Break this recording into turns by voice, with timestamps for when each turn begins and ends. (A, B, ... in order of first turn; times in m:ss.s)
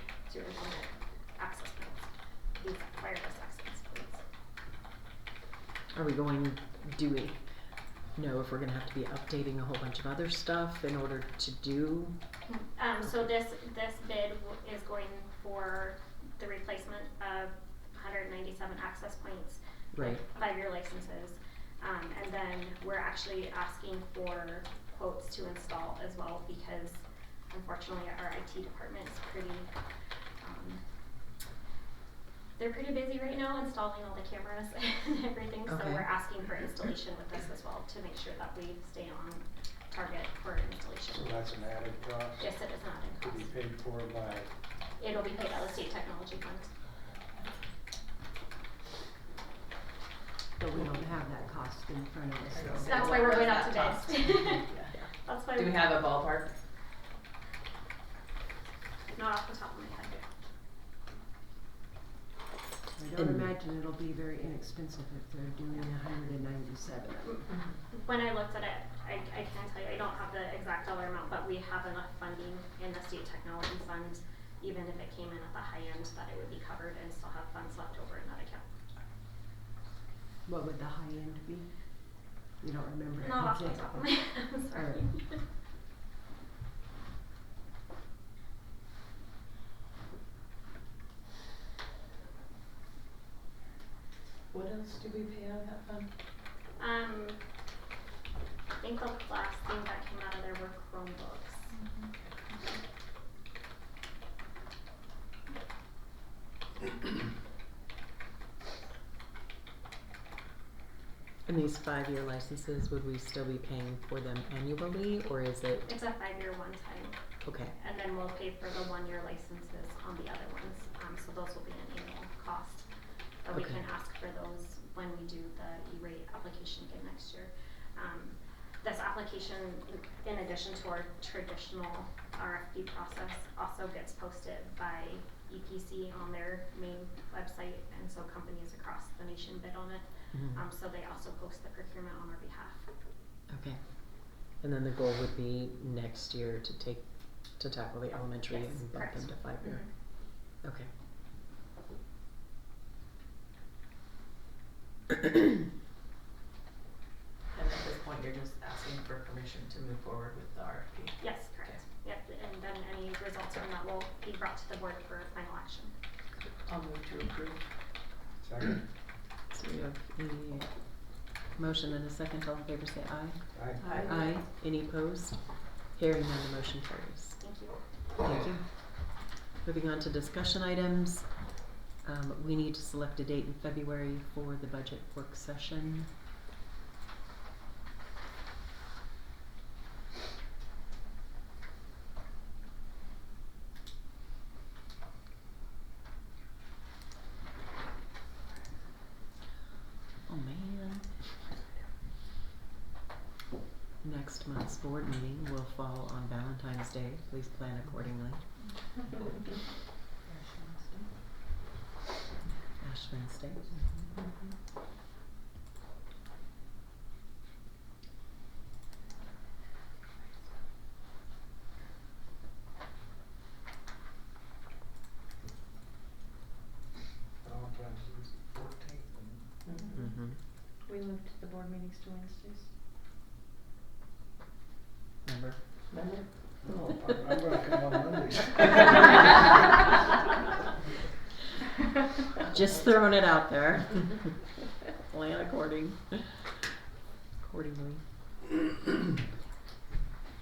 0:00.3-0:04.2 A
0:05.9-0:07.4 B
0:08.1-0:12.2 B
0:12.4-0:29.7 A
0:19.9-0:20.2 B
0:30.4-0:30.8 A
0:32.6-0:41.4 A
0:35.7-0:36.2 B
0:41.1-0:44.5 C
0:42.4-0:43.5 A
0:45.0-0:46.7 A
0:50.6-0:52.9 D
0:52.5-0:54.9 E
0:52.8-0:56.0 A
0:55.5-0:56.6 E
0:59.1-1:00.2 A
1:03.1-1:03.5 B
1:03.3-1:07.4 D
1:07.2-1:18.7 A
1:07.5-1:07.8 E
1:20.4-1:25.2 D
1:23.2-1:25.4 A
1:34.5-1:36.1 E
1:36.8-1:37.4 A
1:38.8-1:41.7 A
1:41.8-1:42.1 F
1:51.4-1:55.9 B
1:55.8-2:02.8 A
1:57.4-1:57.7 B
2:03.4-2:22.9 A
2:03.5-2:03.8 B
2:20.3-2:20.6 B
2:23.5-2:30.9 B
2:28.5-2:29.9 A
2:37.5-2:41.5 E
2:41.2-2:45.9 A
2:46.6-2:47.6 E
2:48.4-2:48.8 C
2:49.5-2:50.7 B
2:51.5-2:57.4 B
2:53.5-2:53.8 C
2:53.8-2:54.3 D
2:53.8-2:54.5 E
2:57.4-2:57.8 A
2:58.2-3:01.4 B
2:58.2-2:58.6 C
3:02.0-3:06.1 B
3:20.2-3:21.3 B
3:24.0-3:28.4 B
3:30.3-3:31.0 D
3:32.8-3:33.8 B
3:47.4-3:49.5 C
3:49.7-3:52.8 F
3:49.9-3:50.4 B
3:55.2-3:55.6 B
3:55.9-3:56.6 E
3:56.6-3:59.4 C
4:02.4-4:06.4 B
4:07.4-4:08.0 B